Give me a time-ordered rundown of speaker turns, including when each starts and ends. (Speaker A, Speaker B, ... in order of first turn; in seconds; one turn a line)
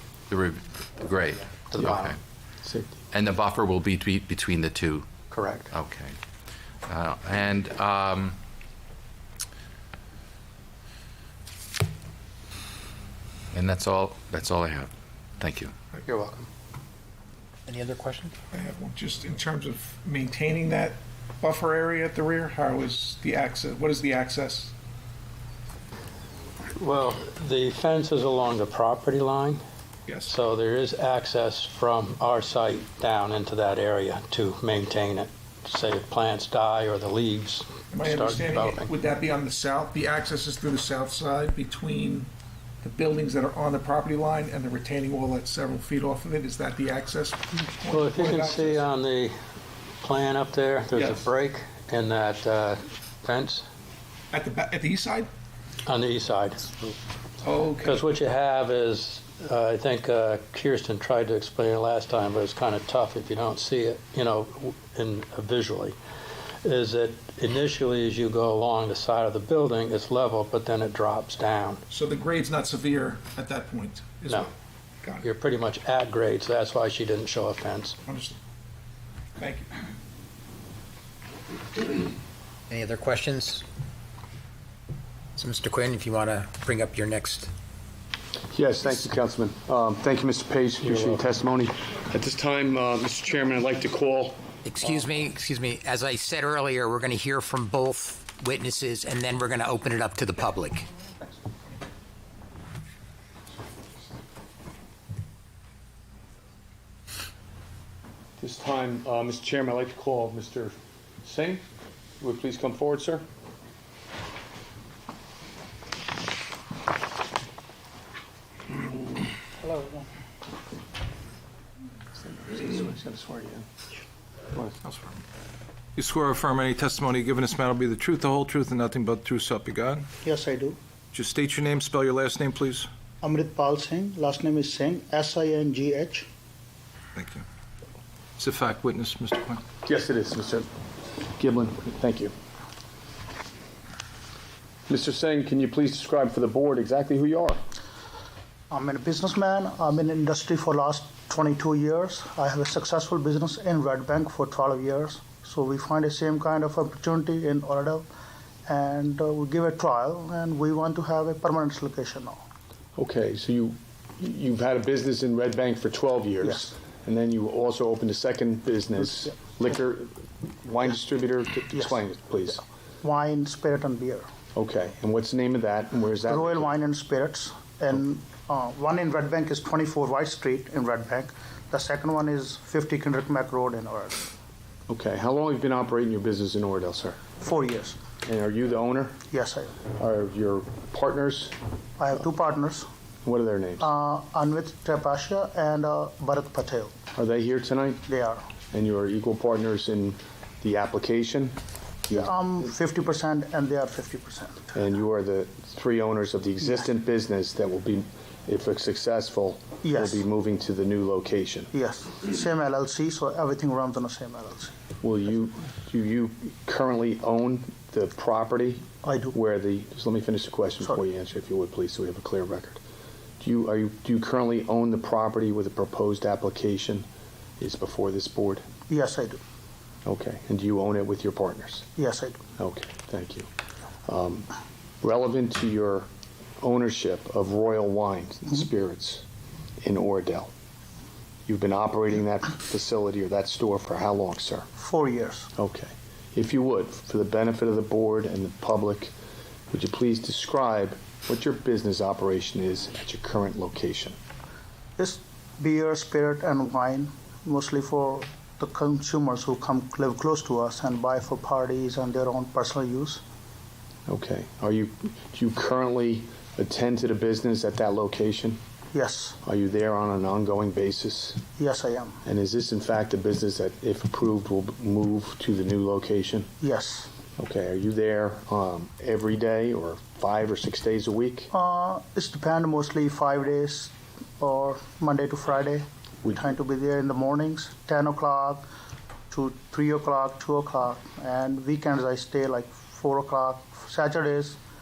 Speaker A: 0.3-2.1
Speaker B: 1.7-2.1
Speaker C: 2.6-3.0
Speaker A: 3.1-5.0
Speaker B: 5.3-5.7
Speaker A: 5.8-6.1
Speaker A: 6.9-8.3
Speaker A: 13.5-15.7
Speaker B: 16.0-16.5
Speaker D: 17.7-18.3
Speaker E: 18.5-24.7
Speaker B: 26.8-29.6
Speaker E: 30.1-30.3
Speaker B: 30.2-38.9
Speaker E: 37.9-42.3
Speaker E: 42.8-48.9
Speaker B: 47.9-49.3
Speaker B: 50.0-53.6
Speaker E: 50.9-51.3
Speaker E: 54.3-55.3
Speaker B: 55.9-56.9
Speaker E: 57.4-58.1
Speaker B: 57.8-65.9
Speaker B: 66.6-71.8
Speaker E: 71.9-74.5
Speaker B: 75.2-78.0
Speaker E: 78.0-78.3
Speaker E: 79.4-79.7
Speaker D: 82.7-83.6
Speaker D: 85.3-87.5
Speaker C: 88.5-94.4
Speaker B: 90.8-91.2
Speaker D: 94.6-100.9
Speaker C: 108.4-111.6
Speaker C: 112.2-113.2
Speaker F: 119.6-120.1
Speaker C: 122.2-123.6
Speaker G: 124.8-125.2
Speaker G: 126.0-130.1
Speaker F: 130.2-130.8
Speaker G: 131.1-132.9
Speaker F: 133.2-136.3
Speaker G: 137.2-137.4
Speaker G: 138.4-139.6
Speaker C: 139.8-140.7
Speaker C: 141.4-142.3
Speaker C: 144.9-147.6
Speaker F: 148.7-158.1
Speaker F: 158.7-162.4
Speaker C: 162.9-172.6
Speaker F: 166.4-166.7
Speaker F: 171.7-172.0
Speaker F: 173.0-174.3
Speaker C: 174.5-176.7
Speaker F: 176.2-184.3
Speaker C: 184.9-187.2
Speaker F: 187.4-188.0
Speaker C: 188.2-189.2
Speaker F: 189.3-189.8
Speaker C: 190.0-191.5
Speaker F: 192.0-192.9
Speaker C: 193.2-193.9
Speaker F: 193.8-196.9
Speaker C: 197.2-198.0
Speaker F: 198.1-198.5
Speaker C: 198.7-202.3
Speaker F: 202.1-204.7
Speaker C: 204.7-211.7
Speaker F: 209.8-210.2
Speaker F: 211.7-214.7
Speaker C: 215.0-222.8
Speaker F: 219.0-219.3
Speaker C: 223.4-227.1
Speaker C: 227.6-228.6
Speaker F: 228.9-229.4
Speaker C: 230.0-231.9
Speaker F: 231.9-232.4
Speaker C: 232.6-233.5
Speaker C: 234.1-234.5
Speaker C: 235.0-236.1
Speaker C: 236.6-239.2
Speaker C: 239.8-240.5
Speaker C: 241.5-244.7
Speaker F: 244.8-245.5
Speaker C: 245.6-249.1
Speaker C: 249.7-254.2
Speaker F: 255.0-263.2
Speaker C: 264.1-268.6
Speaker F: 268.9-269.4
Speaker C: 269.4-271.4
Speaker F: 271.6-272.2
Speaker C: 272.2-276.5
Speaker F: 276.6-277.1
Speaker C: 277.4-281.5
Speaker F: 281.5-288.7
Speaker F: 289.3-294.6